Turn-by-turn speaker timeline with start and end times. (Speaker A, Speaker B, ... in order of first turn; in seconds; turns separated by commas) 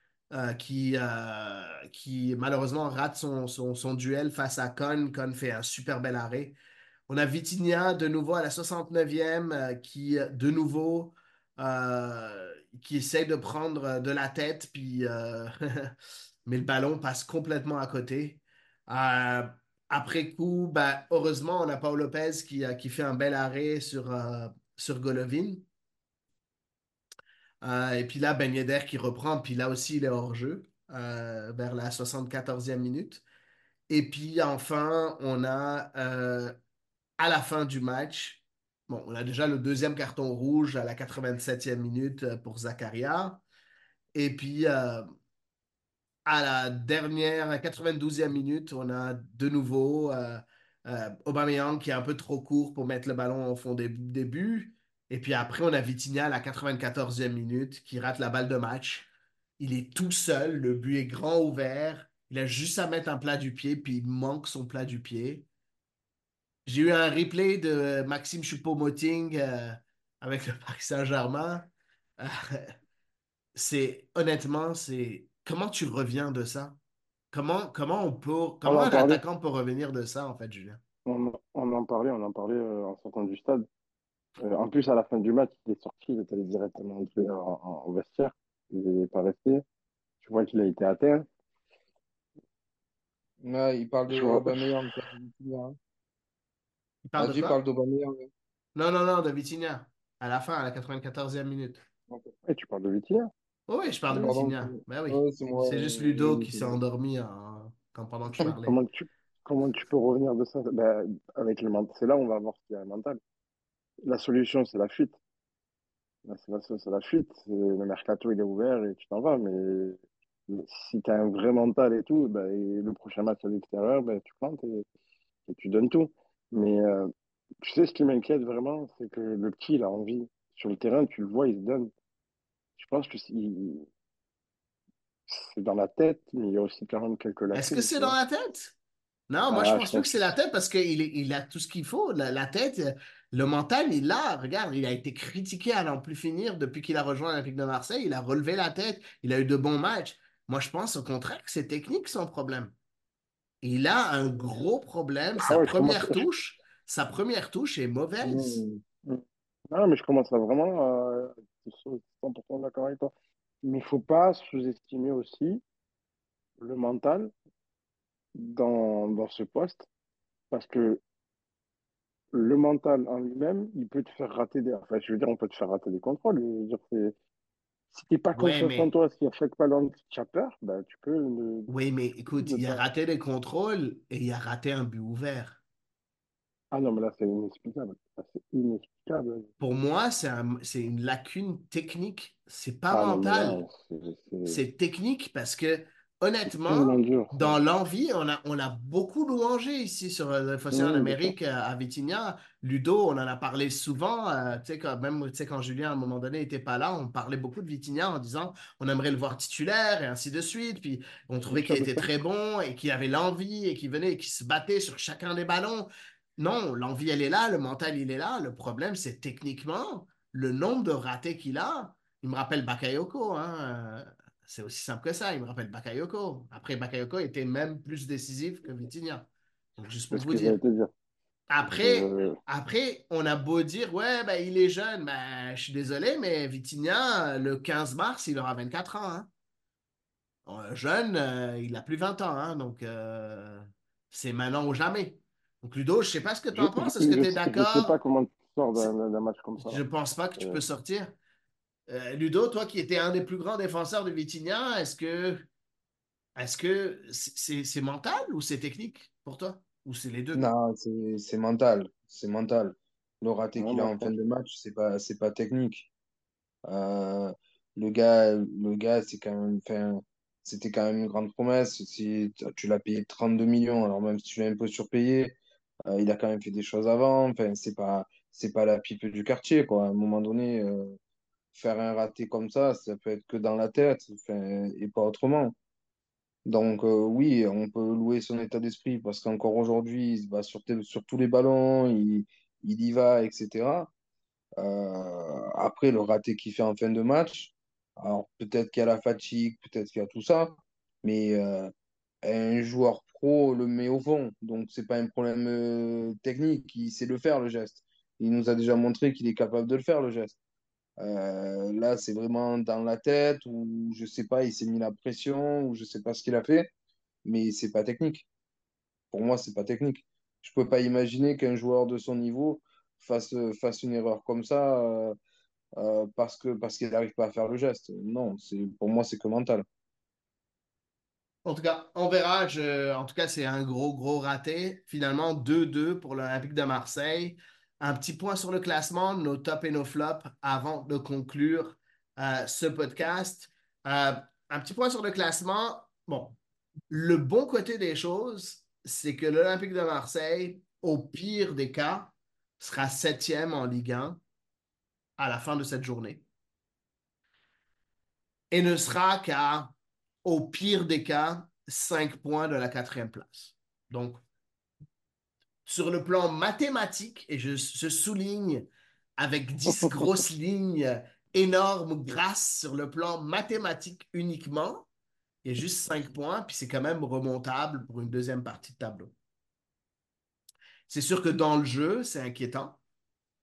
Speaker A: 0.3-6.6, Speaker A: 7.1-15.9, Speaker A: 16.5-25.6, Speaker A: 27.6-33.2, Speaker A: 33.9-36.5, Speaker A: 37.2-43.4, Speaker A: 44.1-45.1, Speaker A: 46.3-65.5, Speaker A: 66.7-71.7, Speaker A: 72.2-72.7, Speaker A: 73.5-76.8, Speaker A: 77.3-80.8, Speaker B: 78.6-79.2, Speaker B: 81.1-83.7, Speaker B: 84.4-89.6, Speaker B: 90.2-91.3, Speaker C: 93.4-95.8, Speaker B: 94.1-94.7, Speaker A: 97.1-97.6, Speaker C: 97.2-98.3, Speaker A: 98.8-101.8, Speaker B: 102.5-103.3, Speaker A: 103.7-108.8, Speaker C: 104.1-106.8, Speaker B: 108.4-113.2, Speaker B: 114.0-115.2, Speaker B: 116.3-124.8, Speaker B: 125.5-127.1, Speaker B: 127.6-131.9, Speaker B: 132.8-133.9, Speaker B: 135.3-138.2, Speaker A: 137.5-138.8, Speaker A: 139.3-152.7, Speaker B: 139.5-140.3, Speaker A: 153.6-158.6, Speaker B: 155.4-156.3, Speaker C: 158.2-158.8, Speaker B: 159.1-163.1, Speaker B: 163.6-165.6, Speaker B: 166.6-167.3, Speaker B: 168.4-169.9, Speaker B: 170.5-171.0, Speaker B: 172.3-177.2, Speaker B: 177.9-181.7, Speaker A: 178.3-178.9, Speaker A: 181.7-185.6, Speaker B: 182.4-182.8, Speaker B: 186.7-189.5, Speaker A: 189.6-193.6, Speaker B: 192.9-194.6, Speaker A: 194.5-230.6, Speaker B: 196.5-197.6, Speaker B: 200.7-201.3, Speaker B: 211.5-212.1, Speaker B: 230.1-230.9, Speaker A: 231.5-239.3, Speaker B: 231.6-232.4, Speaker A: 240.5-248.0, Speaker B: 246.5-249.8, Speaker A: 249.6-251.2, Speaker A: 251.9-255.5, Speaker A: 256.4-260.4, Speaker C: 260.3-265.9, Speaker B: 263.6-264.1, Speaker C: 266.6-281.0, Speaker C: 281.5-285.6, Speaker C: 286.5-293.9, Speaker C: 294.6-301.7, Speaker C: 302.2-310.4, Speaker C: 311.0-316.7, Speaker C: 317.2-318.3, Speaker C: 319.1-325.2, Speaker C: 325.8-329.7, Speaker A: 331.4-346.4, Speaker A: 346.9-354.2, Speaker A: 355.2-356.2, Speaker A: 358.5-364.2, Speaker A: 365.7-368.7, Speaker A: 369.2-374.9, Speaker B: 369.7-370.1, Speaker A: 375.4-379.1, Speaker A: 380.9-382.8